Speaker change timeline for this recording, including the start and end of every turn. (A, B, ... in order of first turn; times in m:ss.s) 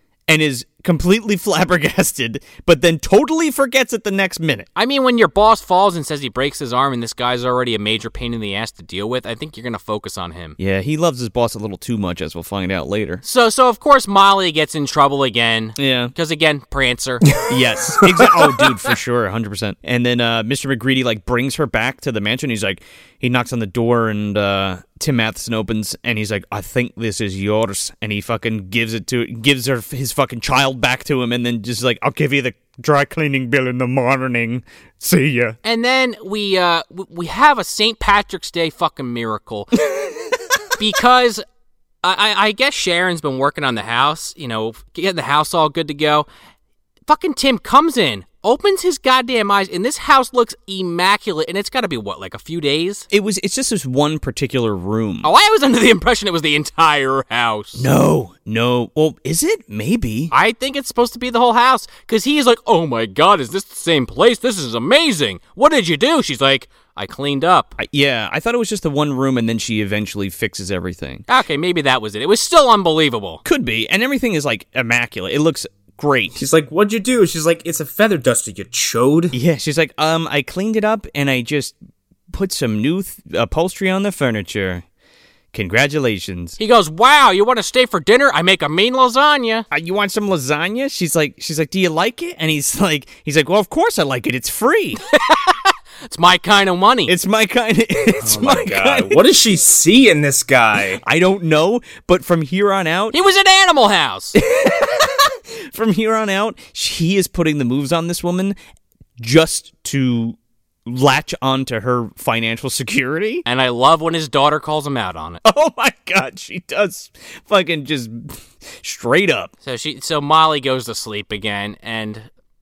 0:00.3-0:04.7 A
0:04.8-0:10.6 B
0:10.6-0:13.2 A
0:13.2-0:17.3 B
0:15.8-0:16.1 A
0:17.4-0:18.5 C
0:17.5-0:35.6 A
0:35.6-0:39.7 B
0:40.8-0:41.4 B
0:42.0-0:46.3 B
0:47.1-0:53.1 B
0:53.1-0:55.3 A
0:55.2-0:57.9 B
0:57.8-1:00.3 A
1:00.3-1:07.8 B
1:07.8-1:11.2 A
1:11.3-1:13.4 B
1:13.4-1:16.4 A
1:16.4-1:19.4 C
1:19.3-1:21.8 A
1:22.3-1:24.8 A
1:25.5-1:26.6 A
1:26.6-1:29.7 B
1:29.7-1:35.0 A
1:35.1-1:37.1 B
1:37.1-1:39.2 A
1:38.2-1:41.0 C
1:41.0-1:43.2 A
1:43.1-1:44.4 B
1:44.4-1:48.6 A
1:49.2-1:53.4 A
1:53.4-1:55.4 B
1:55.4-1:59.5 A
1:59.6-2:02.3 B